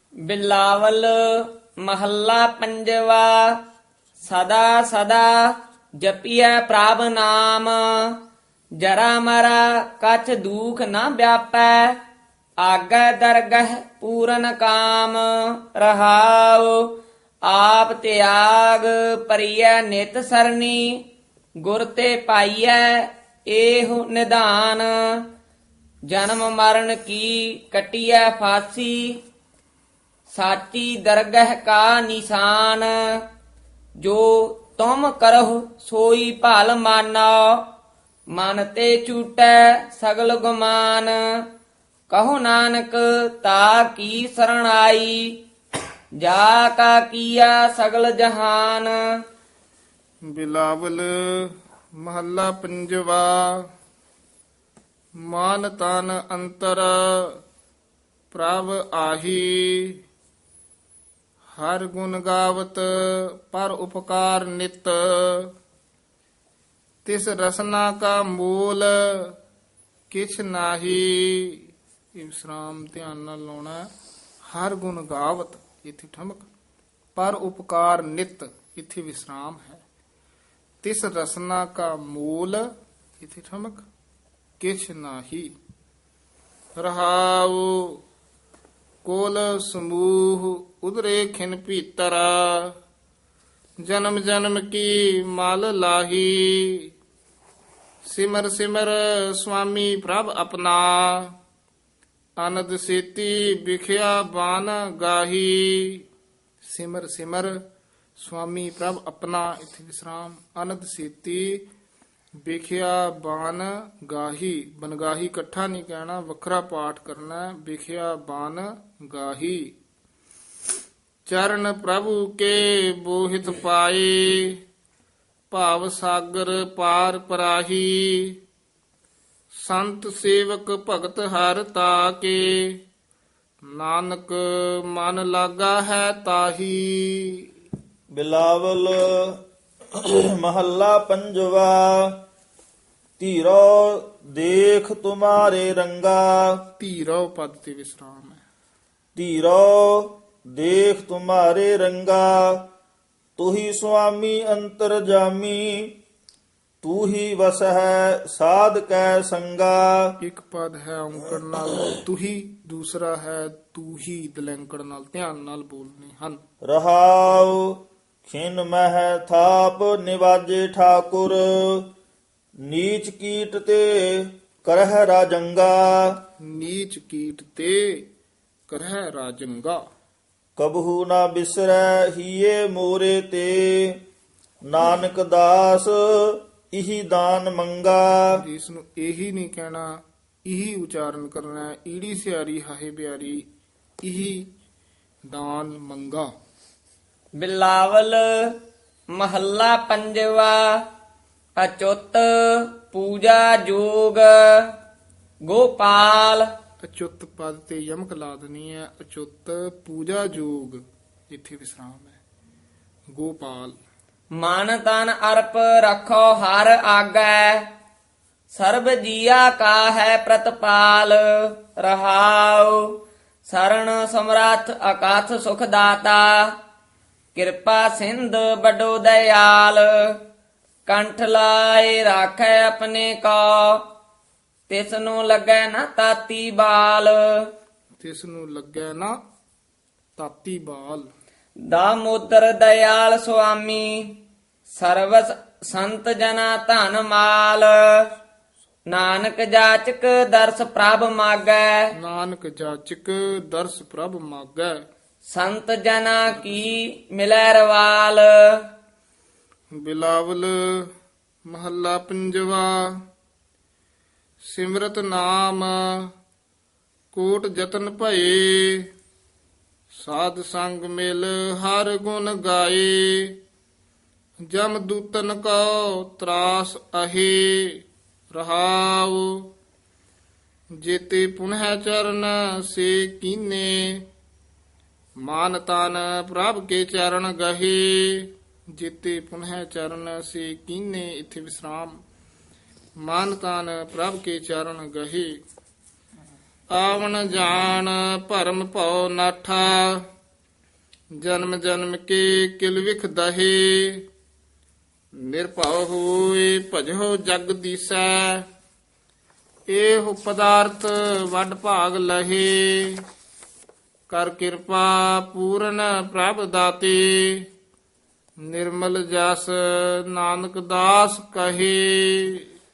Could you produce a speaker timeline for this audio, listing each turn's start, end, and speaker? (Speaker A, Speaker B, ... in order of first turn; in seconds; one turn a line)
Speaker A: 0.2-3.6
Speaker A: 4.2-8.2
Speaker A: 8.8-12.0
Speaker A: 12.6-16.9
Speaker A: 17.4-21.1
Speaker A: 21.6-25.3
Speaker A: 26.1-29.2
Speaker A: 30.3-33.0
Speaker A: 34.0-37.6
Speaker A: 38.3-41.4
Speaker A: 42.1-45.4
Speaker A: 46.2-49.0
Speaker B: 50.3-53.6
Speaker B: 55.2-57.4
Speaker B: 58.3-60.0
Speaker B: 61.5-65.5
Speaker B: 67.0-69.3
Speaker B: 70.1-73.9
Speaker B: 74.5-76.5
Speaker B: 77.2-79.8
Speaker B: 80.8-82.7
Speaker B: 83.2-83.8
Speaker B: 84.6-85.5
Speaker B: 86.8-88.0
Speaker B: 89.0-92.7
Speaker B: 93.8-96.9
Speaker B: 98.0-101.3
Speaker B: 102.4-106.0
Speaker B: 106.7-107.5
Speaker B: 108.2-111.6
Speaker B: 112.4-119.7
Speaker B: 121.3-124.6
Speaker B: 125.5-128.4
Speaker B: 129.6-132.8
Speaker B: 133.8-137.5
Speaker C: 138.1-139.4
Speaker C: 139.9-142.2
Speaker C: 143.2-146.6
Speaker B: 146.8-148.4
Speaker C: 149.2-152.7
Speaker C: 153.4-156.0
Speaker C: 156.8-160.2
Speaker B: 160.2-166.4
Speaker C: 166.7-171.9
Speaker C: 172.6-176.2
Speaker B: 176.4-178.1
Speaker B: 178.7-179.8
Speaker C: 180.6-184.0
Speaker C: 184.7-188.4
Speaker B: 188.3-189.9
Speaker B: 190.5-193.4
Speaker B: 194.0-194.5
Speaker B: 195.3-196.3
Speaker A: 197.4-198.6
Speaker A: 199.1-200.8
Speaker A: 201.6-204.7
Speaker A: 205.5-206.5
Speaker B: 206.8-212.2
Speaker B: 213.1-213.8
Speaker A: 214.4-217.7
Speaker A: 218.5-226.5
Speaker A: 227.3-230.2
Speaker A: 230.9-233.9
Speaker A: 234.7-237.5
Speaker B: 238.0-239.2
Speaker B: 240.2-241.1
Speaker A: 241.6-248.1
Speaker A: 248.9-251.9
Speaker B: 252.0-254.8
Speaker A: 255.2-258.7
Speaker B: 256.3-256.8
Speaker B: 259.8-260.9
Speaker B: 261.5-262.9
Speaker B: 264.5-266.1
Speaker B: 267.1-268.9
Speaker B: 270.0-273.4
Speaker B: 274.4-277.8
Speaker B: 278.3-279.3
Speaker B: 280.8-284.1
Speaker B: 285.2-292.0
Speaker B: 293.0-295.4
Speaker B: 296.7-300.1
Speaker B: 301.2-304.1
Speaker B: 305.2-308.4
Speaker B: 309.7-313.0
Speaker B: 314.1-317.5
Speaker B: 318.4-322.5